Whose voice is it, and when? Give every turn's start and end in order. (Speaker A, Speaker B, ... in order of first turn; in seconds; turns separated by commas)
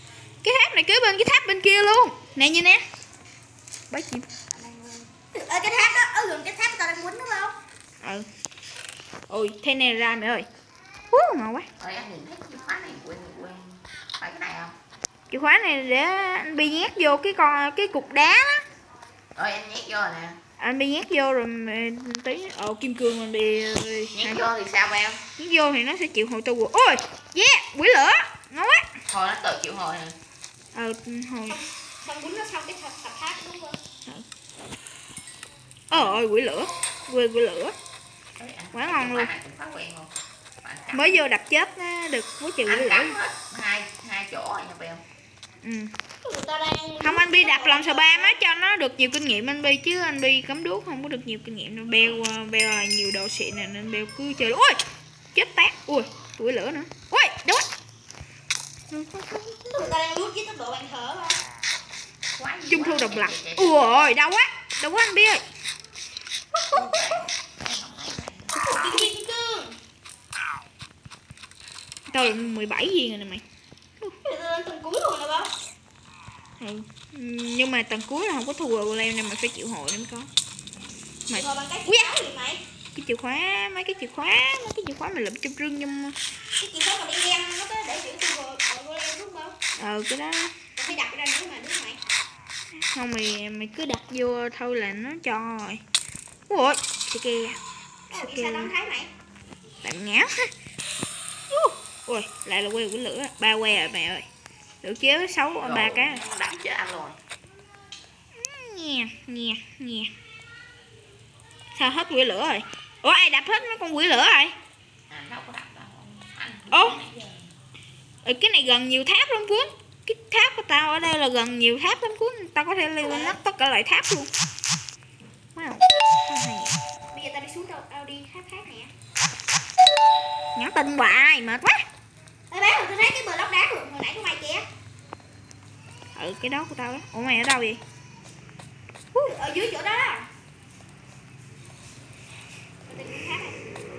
Speaker A: 0.4-2.8, Speaker A: 3.9-4.3, Speaker B: 4.5-5.1, Speaker C: 5.3-7.5, Speaker A: 8.0-8.3, Speaker A: 9.3-10.5, Speaker A: 11.1-11.7, Speaker B: 11.8-14.8, Speaker A: 15.3-18.6, Speaker B: 19.4-20.4, Speaker A: 20.6-24.4, Speaker B: 24.1-25.2, Speaker A: 25.4-28.9, Speaker B: 29.1-30.2, Speaker A: 30.7-31.6, Speaker C: 31.5-33.8, Speaker A: 35.9-37.8, Speaker B: 35.9-36.2, Speaker B: 38.4-41.2, Speaker A: 38.7-39.3, Speaker A: 40.9-43.1, Speaker B: 42.7-45.0, Speaker A: 45.6-45.9, Speaker C: 46.2-48.4, Speaker A: 47.0-54.8, Speaker A: 55.3-57.7, Speaker A: 58.9-59.9, Speaker C: 59.7-61.4, Speaker B: 62.4-64.1, Speaker A: 62.7-65.4, Speaker B: 66.7-69.0, Speaker C: 68.6-69.8, Speaker A: 72.1-73.4, Speaker C: 74.2-75.5, Speaker A: 76.6-80.3, Speaker C: 81.3-82.6, Speaker A: 81.3-82.1, Speaker A: 83.0-86.2, Speaker C: 86.6-89.5, Speaker A: 89.8-90.6, Speaker C: 90.8-92.0, Speaker A: 92.8-95.8, Speaker A: 96.5-97.6, Speaker C: 98.1-99.1, Speaker A: 98.1-98.7, Speaker A: 99.8-100.5, Speaker A: 101.5-104.3, Speaker A: 104.8-106.2, Speaker B: 105.6-107.2, Speaker A: 108.3-110.1, Speaker A: 111.8-114.5, Speaker B: 115.1-117.5, Speaker A: 116.7-117.0, Speaker A: 118.2-124.3, Speaker C: 123.0-123.4, Speaker A: 125.5-126.8, Speaker C: 127.1-128.9, Speaker A: 130.6-131.8, Speaker C: 132.5-134.7, Speaker A: 136.2-137.8, Speaker C: 139.2-140.3, Speaker C: 142.9-143.6